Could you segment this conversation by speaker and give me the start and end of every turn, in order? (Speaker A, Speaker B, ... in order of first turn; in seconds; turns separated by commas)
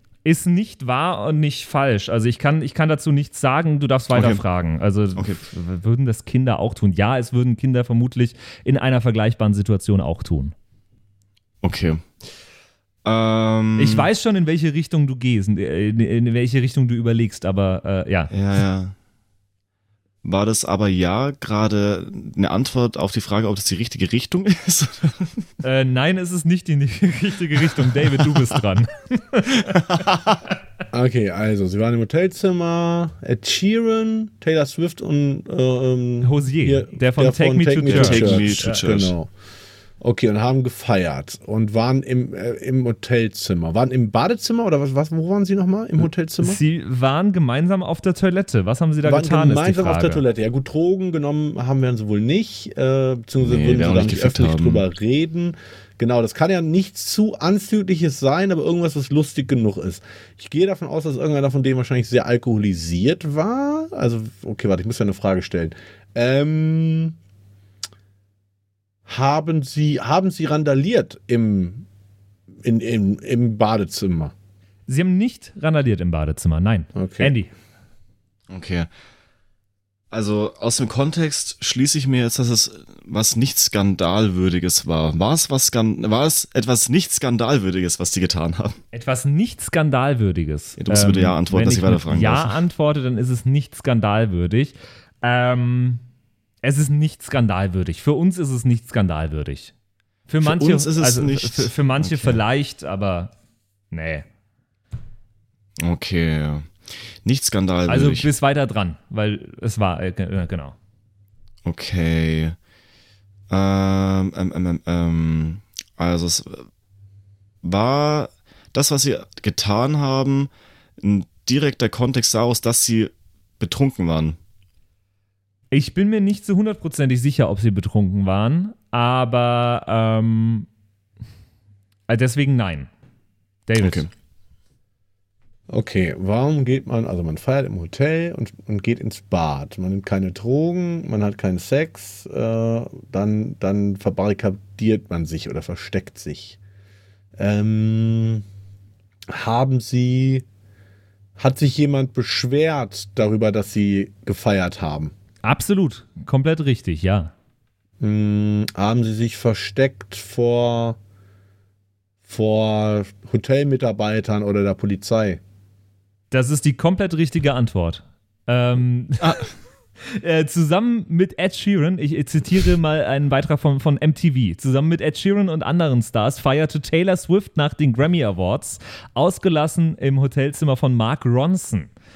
Speaker A: 0.2-10.5, Speaker B: 4.1-4.4, Speaker B: 5.2-5.4, Speaker B: 11.6-12.1, Speaker B: 13.1-14.1, Speaker A: 13.8-18.3, Speaker B: 18.3-18.9, Speaker B: 20.2-25.5, Speaker A: 25.6-29.8, Speaker B: 29.8-30.4, Speaker C: 30.9-39.3, Speaker A: 36.2-38.8, Speaker B: 37.9-39.1, Speaker C: 40.0-46.6, Speaker A: 46.4-50.2, Speaker C: 49.0-67.2, Speaker B: 53.4-54.8, Speaker C: 69.1-71.9, Speaker C: 72.6-74.3, Speaker A: 74.9-77.5, Speaker C: 77.0-77.3, Speaker B: 78.5-78.9, Speaker B: 80.1-88.8, Speaker A: 88.9-96.0, Speaker B: 90.8-92.6, Speaker A: 96.6-99.7, Speaker A: 100.3-103.3, Speaker B: 100.4-102.4, Speaker A: 103.9-104.3, Speaker B: 105.8-106.7, Speaker B: 107.2-108.3, Speaker A: 107.9-110.8, Speaker B: 111.7-112.6, Speaker B: 113.5-116.7, Speaker B: 117.6-124.4, Speaker A: 125.7-130.7, Speaker A: 132.1-132.9, Speaker A: 133.7-134.1, Speaker B: 133.8-134.1, Speaker C: 135.7-146.6, Speaker C: 147.4-148.4, Speaker C: 149.3-150.5, Speaker C: 151.4-155.1, Speaker A: 155.4-157.3, Speaker C: 158.0-161.0, Speaker C: 162.2-165.4, Speaker A: 166.3-169.5, Speaker A: 170.1-181.9